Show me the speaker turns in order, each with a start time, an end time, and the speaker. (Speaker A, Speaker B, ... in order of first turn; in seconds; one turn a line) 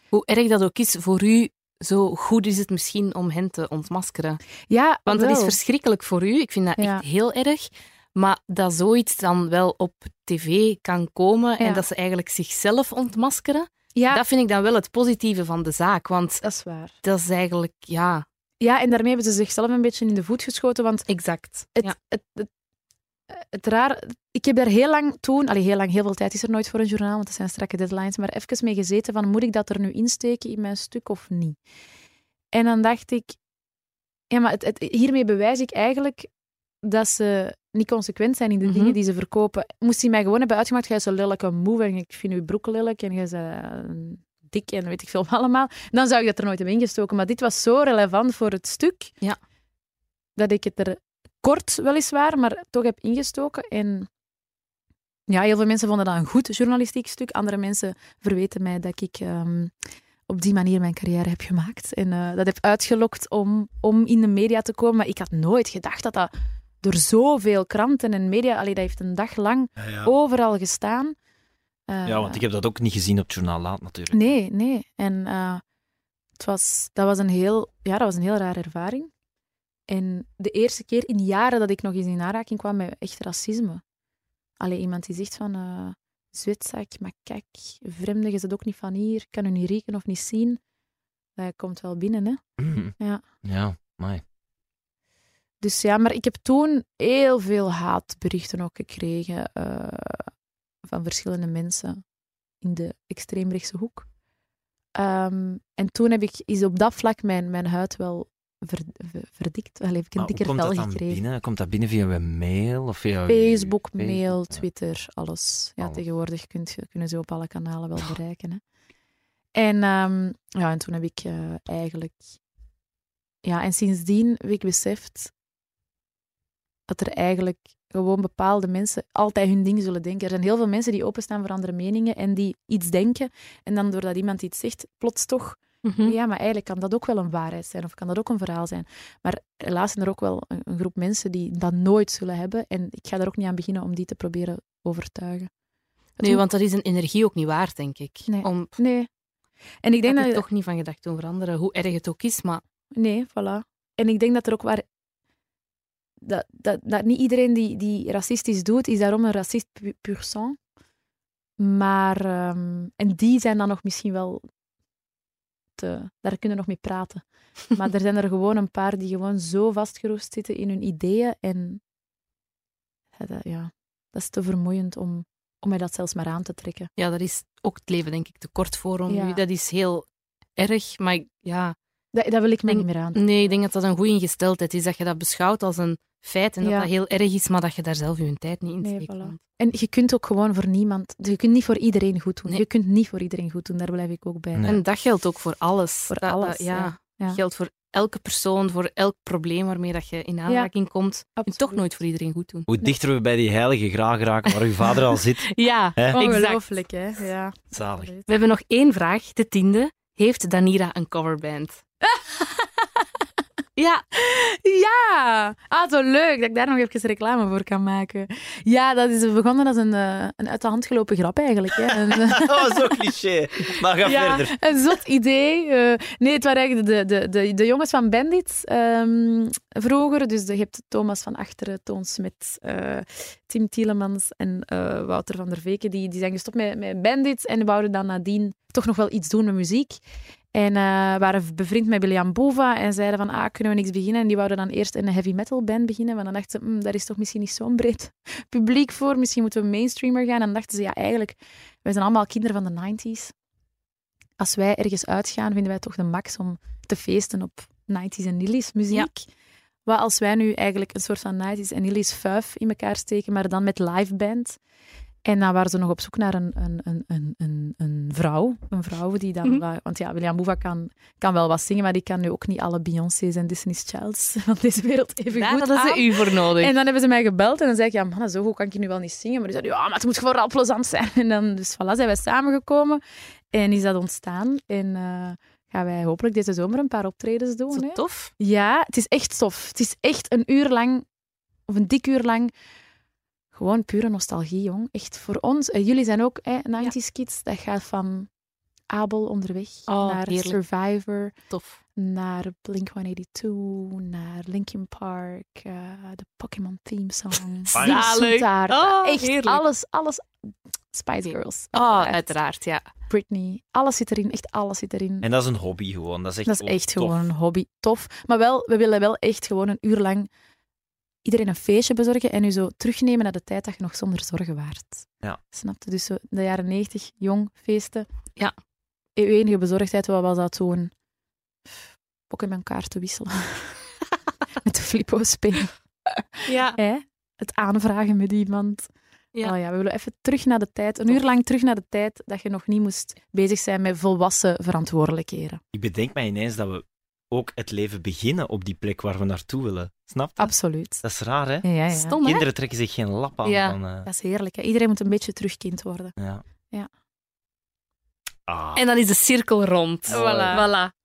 Speaker A: 0.1-4.4
Speaker B: 4.7-5.6
Speaker A: 5.1-16.4
Speaker B: 6.8-7.0
Speaker B: 11.6-11.8
Speaker B: 13.9-14.2
Speaker B: 16.4-16.9
Speaker A: 17.0-18.2
Speaker B: 18.6-21.1
Speaker A: 21.1-21.9
Speaker B: 21.8-22.5
Speaker B: 23.3-31.6
Speaker B: 32.5-33.4
Speaker B: 34.3-36.3
Speaker B: 36.8-49.1
Speaker A: 38.6-39.0
Speaker B: 50.4-54.1
Speaker B: 55.3-59.7
Speaker B: 60.3-71.2
Speaker C: 69.8-70.1
Speaker B: 71.9-72.4
Speaker C: 72.1-74.3
Speaker B: 74.1-75.6
Speaker B: 76.4-79.1
Speaker B: 79.9-83.8
Speaker B: 84.6-90.6
Speaker B: 91.4-92.4
Speaker C: 92.6-94.2
Speaker B: 95.6-100.3
Speaker B: 100.8-102.0
Speaker B: 102.6-104.1
Speaker B: 105.0-111.2
Speaker C: 110.2-114.6
Speaker B: 113.3-118.6
Speaker B: 119.5-122.2
Speaker B: 123.4-125.3
Speaker B: 126.9-145.5
Speaker A: 135.8-136.2
Speaker B: 146.2-146.4
Speaker A: 146.2-148.8
Speaker B: 148.3-149.1
Speaker B: 149.8-150.4
Speaker A: 150.1-152.6
Speaker B: 152.9-154.8
Speaker B: 156.2-160.6
Speaker B: 161.6-164.4
Speaker B: 165.8-171.8
Speaker B: 173.2-176.9
Speaker A: 177.0-180.1
Speaker B: 179.1-179.4
Speaker A: 180.6-181.8
Speaker B: 182.1-183.5
Speaker A: 182.7-189.4
Speaker B: 186.6-186.9
Speaker B: 188.8-194.8
Speaker C: 194.5-194.8
Speaker A: 194.7-202.7
Speaker B: 196.1-197.4
Speaker B: 201.4-201.8
Speaker C: 202.7-205.4
Speaker A: 204.5-206.6
Speaker C: 206.0-206.2
Speaker B: 206.1-208.3
Speaker C: 207.7-208.1
Speaker A: 208.3-211.8
Speaker A: 213.8-214.0
Speaker B: 214.2-222.9
Speaker C: 222.1-224.6
Speaker B: 224.0-240.0
Speaker B: 240.5-253.3
Speaker B: 254.4-259.3
Speaker B: 259.9-264.6
Speaker B: 265.2-283.0
Speaker A: 275.3-276.7
Speaker B: 283.5-291.1
Speaker A: 287.7-288.3
Speaker B: 291.7-292.5
Speaker B: 293.5-298.3
Speaker B: 298.9-301.3
Speaker A: 299.9-300.6
Speaker A: 301.5-301.8
Speaker B: 302.0-312.3
Speaker A: 307.7-309.6
Speaker C: 307.8-308.2
Speaker A: 311.7-312.9
Speaker B: 313.1-315.3
Speaker C: 315.2-317.2
Speaker B: 316.5-320.3
Speaker B: 321.2-328.1
Speaker B: 329.2-330.9
Speaker B: 332.3-333.8
Speaker B: 334.6-338.9
Speaker A: 336.5-336.8
Speaker B: 339.4-345.6
Speaker C: 345.7-351.7
Speaker B: 350.4-351.0
Speaker B: 351.6-352.2
Speaker A: 351.9-352.4
Speaker C: 352.2-354.1
Speaker A: 353.4-353.8
Speaker B: 354.1-356.1
Speaker C: 356.2-356.4
Speaker C: 358.5-358.8
Speaker A: 358.8-360.9
Speaker C: 360.1-360.7
Speaker B: 360.1-360.8